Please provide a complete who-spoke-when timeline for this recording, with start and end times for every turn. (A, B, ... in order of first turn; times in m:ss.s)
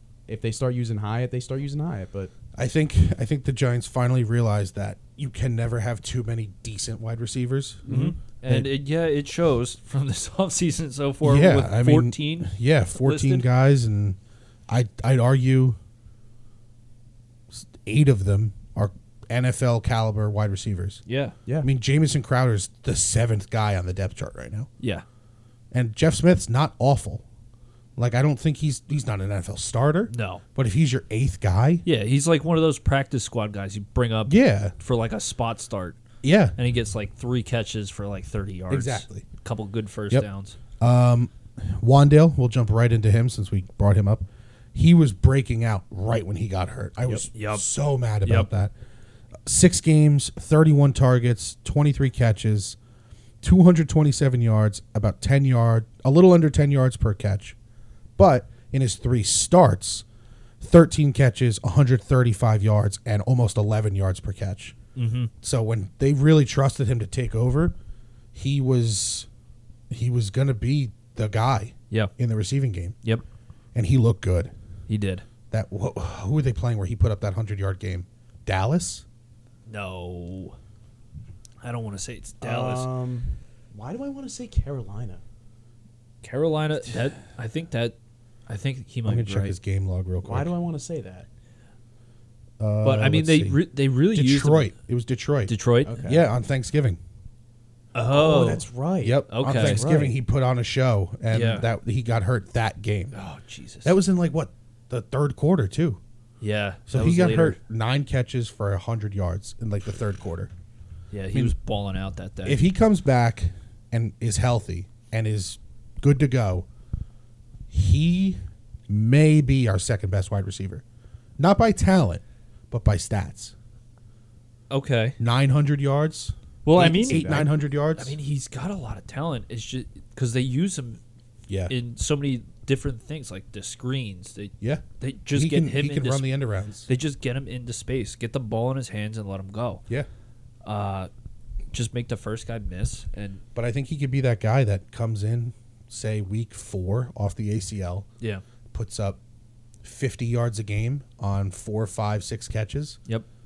0:00.3-0:02.3 A
0:02.5-0:07.9 B
0:07.8-0:08.1 A
0:07.9-0:13.5 C
0:11.2-0:14.2 B
0:14.7-0:15.8 B
0:17.5-0:21.0 B
0:21.1-0:21.3 C
0:21.6-0:24.7 B
0:24.8-0:25.0 C
0:25.7-0:27.2 B
0:28.0-0:31.8 B
0:30.1-0:30.4 C
0:31.8-0:36.0 C
0:34.3-0:34.7 B
0:36.2-0:36.6 B
0:36.6-0:40.6 C
0:38.7-0:39.2 B
0:40.8-0:48.7 B
0:47.1-0:47.7 C
0:48.2-0:48.5 C
0:49.4-0:52.8 B
0:53.4-0:57.5 B
0:58.2-1:00.0 B
1:00.6-1:04.8 B
1:05.0-1:05.3 C
1:05.4-1:07.7 B
1:08.3-1:09.3 B
1:09.9-1:13.0 B
1:13.7-1:14.5 B
1:14.9-1:15.2 C
1:15.5-1:19.0 B
1:19.7-1:20.6 C
1:21.6-1:22.9 C
1:22.4-1:25.2 A
1:26.2-1:28.0 C
1:28.5-1:29.6 C
1:29.0-1:30.5 B
1:30.2-1:31.2 A
1:32.6-1:37.0 B
1:32.8-1:34.7 C
1:35.5-1:36.1 C
1:35.8-1:36.3 A
1:37.9-1:38.7 C
1:38.1-1:40.2 A
1:39.0-1:43.2 B
1:39.3-1:39.8 C
1:41.3-1:41.7 C
1:43.1-1:43.9 C
1:43.8-1:46.0 B
1:46.4-1:47.6 C
1:46.9-1:50.5 B
1:51.1-1:52.6 C
1:52.4-1:56.6 B
1:57.7-2:00.8 B
2:01.4-2:03.5 B
2:04.7-2:05.2 C
2:05.2-2:08.1 B
2:06.6-2:11.0 C
2:07.1-2:07.4 A
2:11.5-2:11.7 B
2:11.7-2:16.3 C
2:14.6-2:16.9 B
2:16.8-2:19.8 C
2:20.6-2:21.1 C
2:21.7-2:23.4 C
2:23.5-2:28.1 B
2:28.7-2:29.2 B
2:29.8-2:33.0 B